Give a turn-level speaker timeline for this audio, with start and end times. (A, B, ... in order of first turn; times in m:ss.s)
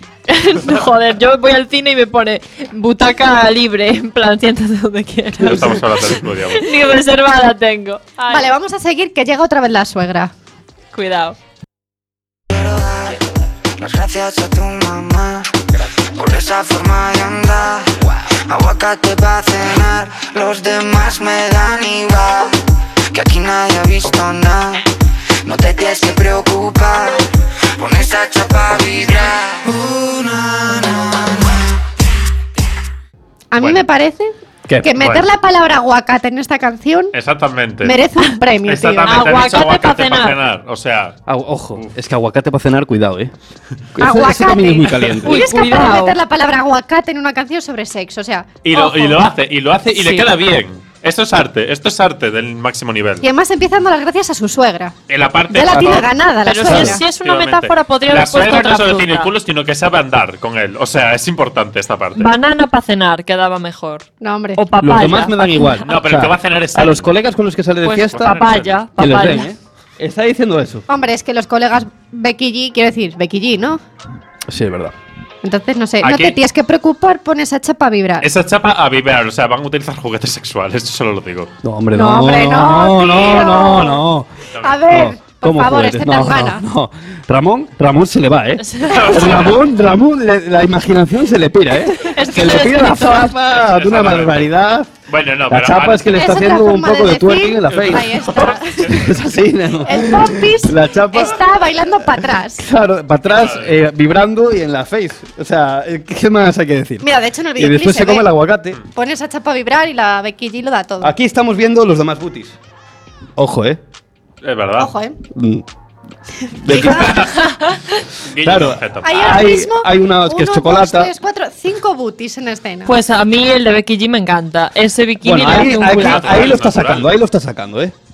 0:00.3-0:05.8 A
0:05.4-0:06.7 B
0:06.6-0:08.5 A
0:08.3-0:10.3 C
0:10.9-0:11.4 A
0:12.5-0:13.2 D
0:13.8-0:15.6 D
0:16.1-0:22.5 D
0:23.1-0:24.8 D
0:25.4-0:27.2 D
0:27.8-0:31.6 D
0:33.5-0:37.1 C
0:33.6-0:33.8 B
0:34.7-0:35.0 E
0:34.9-0:35.2 B
0:37.1-0:38.0 B
0:37.8-0:39.2 C
0:38.6-0:41.2 B
0:39.0-0:40.4 A
0:41.3-0:43.3 E
0:43.9-0:45.5 E
0:44.0-0:49.2 C
0:45.2-0:46.2 A
0:48.6-0:53.2 B
0:49.9-0:50.3 A
0:53.2-0:54.9 C
0:55.1-0:56.1 B
0:55.5-0:57.0 C
0:55.7-0:56.1 E
0:56.4-0:59.3 A
0:56.6-0:57.0 E
0:57.2-1:02.3 B
1:02.2-1:05.4 A
1:04.2-1:04.6 C
1:04.8-1:08.4 E
1:05.8-1:07.1 B
1:07.8-1:09.5 A
1:08.1-1:08.8 B
1:09.0-1:10.8 E
1:10.9-1:13.8 C
1:14.5-1:14.9 E
1:15.4-1:18.3 C
1:16.0-1:16.4 B
1:18.2-1:21.5 B
1:21.6-1:24.3 E
1:21.9-1:24.0 C
1:24.5-1:24.8 B
1:24.6-1:26.6 C
1:24.8-1:34.9 E
1:28.6-1:29.2 A
1:28.8-1:29.6 B
1:32.0-1:33.2 A
1:33.5-1:34.5 B
1:35.1-1:36.2 B
1:35.5-1:41.5 E
1:36.1-1:39.0 C
1:37.7-1:39.1 B
1:39.8-1:42.6 C
1:42.1-1:48.8 E
1:43.3-1:43.7 B
1:47.0-1:48.3 C
1:48.9-1:51.1 C
1:51.0-1:52.6 E
1:53.4-1:53.8 E
1:54.4-1:54.9 B
1:54.8-1:55.2 C
1:55.3-1:55.6 E
1:56.5-1:57.3 E
1:56.6-1:57.2 C
1:56.7-1:57.5 B
1:58.2-1:59.4 B
1:58.4-2:01.1 E
1:59.0-2:02.9 C
2:02.8-2:06.4 A
2:05.2-2:07.9 E
2:05.8-2:07.1 B